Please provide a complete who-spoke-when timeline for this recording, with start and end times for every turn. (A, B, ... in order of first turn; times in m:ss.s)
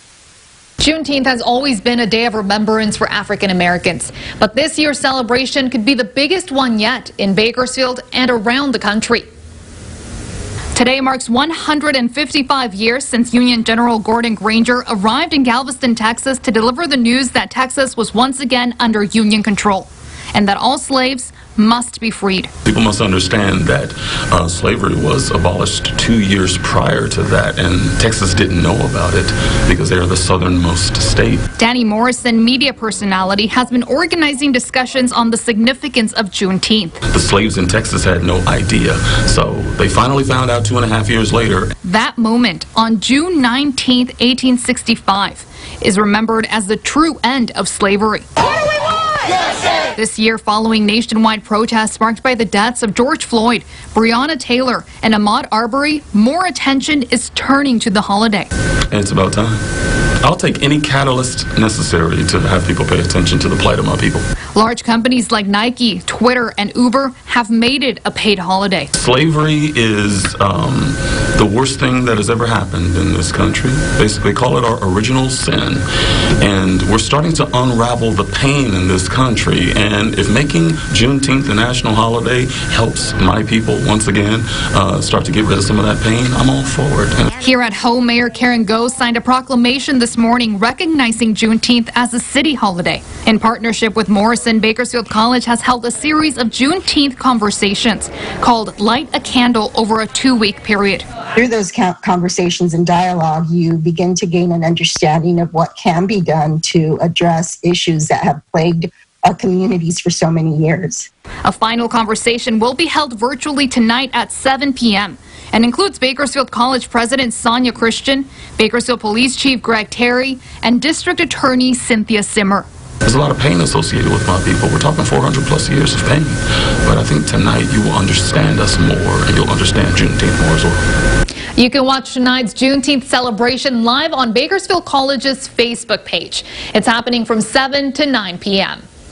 0:00.8-0:09.3 A
0:10.7-0:22.5 A
0:22.6-0:31.4 B
0:31.6-0:37.0 A
0:37.1-0:41.7 B
0:41.8-0:48.3 A
0:49.9-0:58.5 A
0:58.9-0:59.6 B
1:00.2-1:04.2 B
1:04.6-1:08.9 A
1:09.0-1:15.8 B
1:16.4-1:27.3 B
1:27.4-1:41.1 A
1:41.4-1:51.1 C
1:51.4-2:02.7 A
2:03.0-2:10.8 B
2:11.6-2:18.8 A